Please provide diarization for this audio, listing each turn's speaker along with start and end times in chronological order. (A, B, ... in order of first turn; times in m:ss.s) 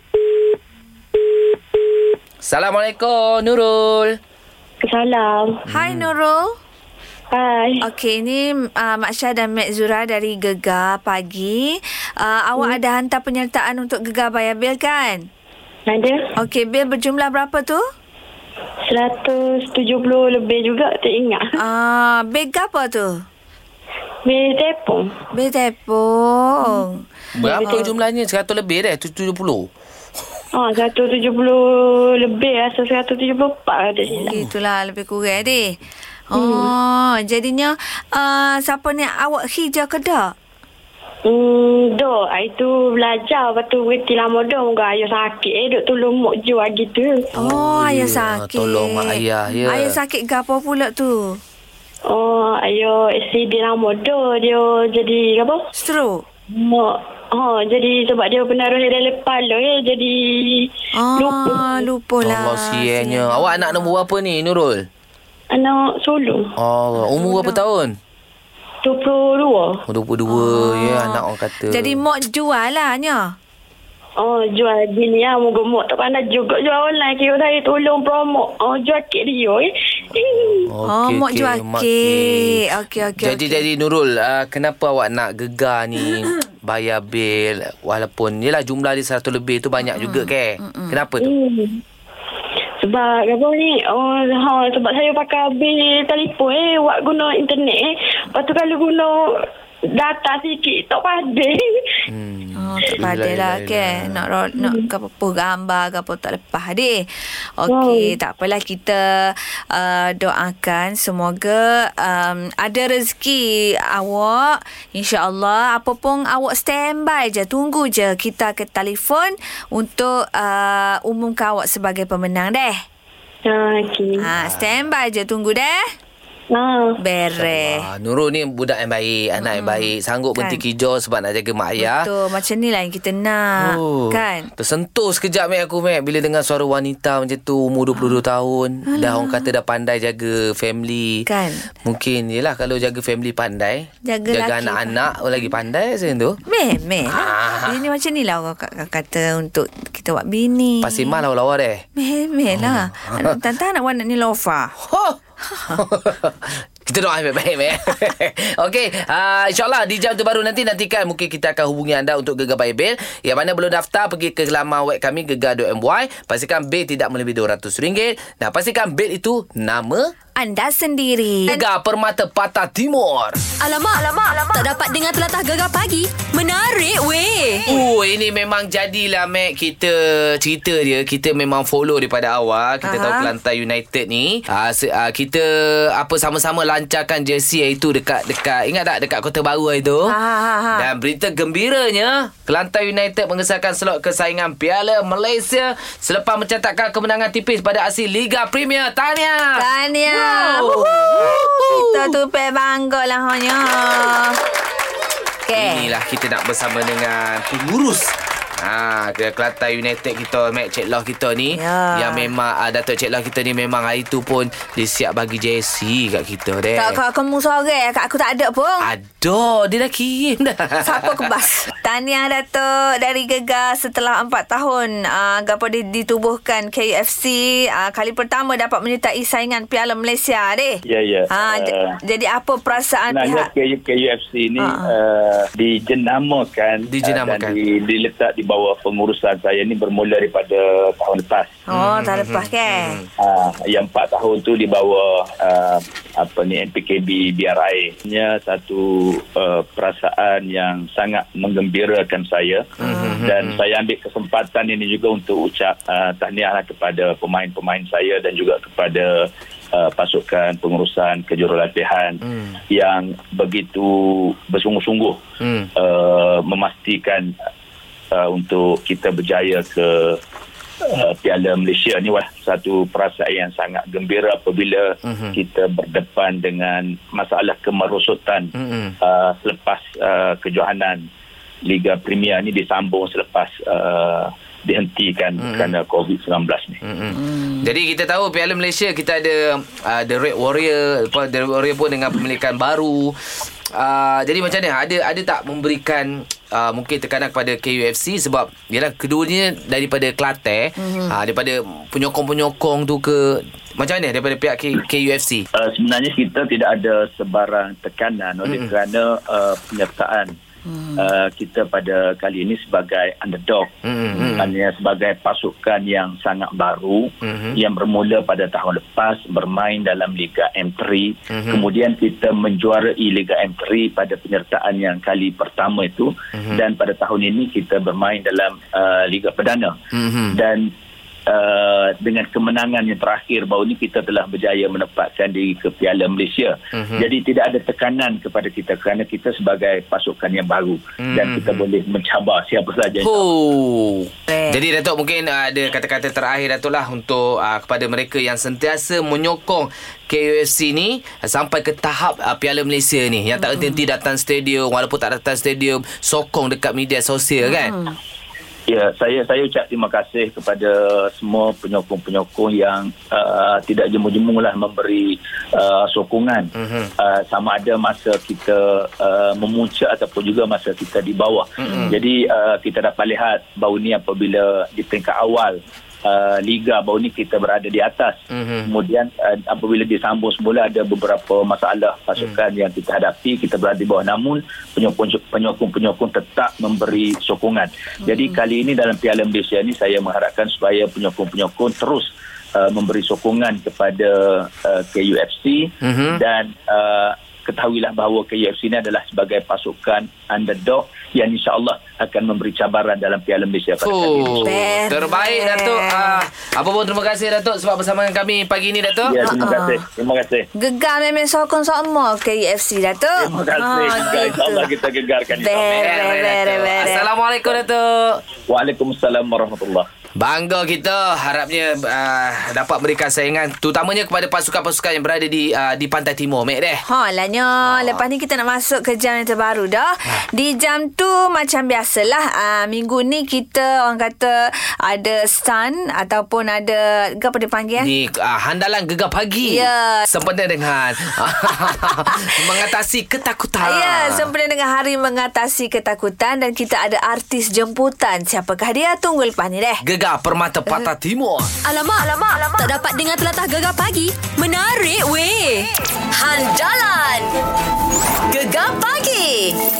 0:02.4-0:04.2 A
0:04.8-0:05.6 B
0:05.7-0:06.6 C
0:05.7-0:06.1 A
0:07.3-0:07.8 B
0:07.8-0:15.3 C
0:15.9-0:16.3 B
0:16.4-0:17.8 C
0:18.8-0:21.6 B
0:21.6-0:23.2 C
0:24.2-0:25.1 B
0:25.3-0:27.9 C
0:27.3-0:29.7 A
0:30.5-0:34.4 B
0:34.2-0:35.8 C
0:36.3-0:40.3 C
0:36.3-0:36.7 B
0:41.2-0:47.3 B
0:47.3-0:51.4 C
0:47.4-0:50.0 A
0:52.1-0:55.6 B
0:55.7-0:56.2 C
0:56.5-1:01.7 B
1:00.9-1:03.9 C
1:02.2-1:04.8 A
1:05.5-1:06.5 B
1:06.6-1:08.0 A
1:07.1-1:07.6 C
1:08.8-1:09.8 B
1:09.9-1:12.0 A
1:10.2-1:13.3 C
1:14.2-1:20.7 B
1:20.7-1:22.7 A
1:20.8-1:23.6 C
1:23.2-1:31.3 A
1:30.0-1:31.0 C
1:31.2-1:31.8 B
1:32.8-1:41.9 B
1:42.1-1:44.2 A
1:42.6-1:47.0 C
1:44.6-1:44.9 B
1:47.6-2:02.8 C
1:47.7-1:48.1 B
2:03.4-2:04.3 B
2:04.2-2:05.8 C
2:04.4-2:04.8 A
2:06.5-2:07.0 B
2:07.0-2:07.8 C
2:07.4-2:12.1 A
2:09.4-2:10.6 C
2:11.8-2:14.5 C
2:13.6-2:21.3 A
2:18.9-2:19.5 C
2:21.2-2:21.7 C
2:21.8-2:26.4 A
2:24.0-2:25.0 C
2:26.5-2:31.2 C
2:27.1-2:27.8 A
2:30.8-2:31.8 A
2:32.0-2:34.7 C
2:32.5-2:33.4 A
2:34.8-2:50.1 A
2:35.5-2:35.8 C
2:50.4-2:51.6 C
2:51.4-2:53.4 A
2:53.6-2:57.7 D
2:57.6-3:10.1 A
3:02.8-3:03.3 C
3:10.0-3:10.9 C
3:10.7-3:22.2 A
3:19.6-3:24.4 C
3:25.5-3:25.9 C
3:25.5-3:37.0 A
3:31.5-3:32.3 C
3:36.7-3:38.9 C
3:38.8-3:41.4 A
3:40.8-3:53.5 C
3:50.9-3:52.0 E
3:53.1-4:01.6 E
3:54.6-3:54.9 C
3:56.9-3:57.6 A
4:01.7-4:03.0 C
4:01.7-4:03.1 A
4:03.2-4:25.2 E
4:12.8-4:13.6 A
4:12.8-4:13.2 C
4:22.2-4:22.5 A
4:25.4-4:25.7 A
4:25.8-4:27.3 E
4:28.1-4:30.2 E
4:30.8-4:41.1 E
4:35.0-4:35.4 A
4:38.5-4:39.0 A
4:41.6-4:46.8 E
4:45.4-4:45.7 A
4:46.8-4:53.2 A
4:53.7-5:05.5 A
5:00.8-5:01.1 C
5:05.5-5:10.3 E
5:08.4-5:08.7 A
5:10.7-5:11.1 C
5:11.0-5:29.8 E
5:13.8-5:14.5 A
5:17.2-5:17.6 A
5:21.3-5:21.7 A
5:26.4-5:26.6 A
5:29.9-5:30.4 A
5:30.3-5:30.7 E
5:31.3-5:43.3 E
5:36.8-5:37.0 A
5:41.0-5:41.6 A
5:43.0-5:57.8 A
5:44.3-5:44.6 C
5:53.4-5:53.8 C
5:57.4-5:57.9 C
5:58.7-6:44.5 E
6:06.6-6:06.9 A
6:11.6-6:12.0 A
6:11.6-6:11.9 C
6:18.3-6:18.7 A
6:35.8-6:36.2 A
6:43.8-6:49.3 A
6:44.3-6:46.2 C
6:49.0-6:50.5 E
6:49.2-6:49.8 C
6:50.5-6:54.7 C
6:53.2-6:55.9 E
6:55.4-6:57.1 C
6:55.6-6:58.2 A
6:58.5-6:59.9 E
7:00.2-7:06.8 A
7:06.8-7:17.9 C
7:07.6-7:08.0 A
7:17.8-7:24.3 A
7:19.4-7:20.1 C
7:22.0-7:22.4 C
7:23.6-7:29.8 C
7:29.8-7:31.5 A
7:31.6-7:37.3 D
7:38.3-7:39.6 D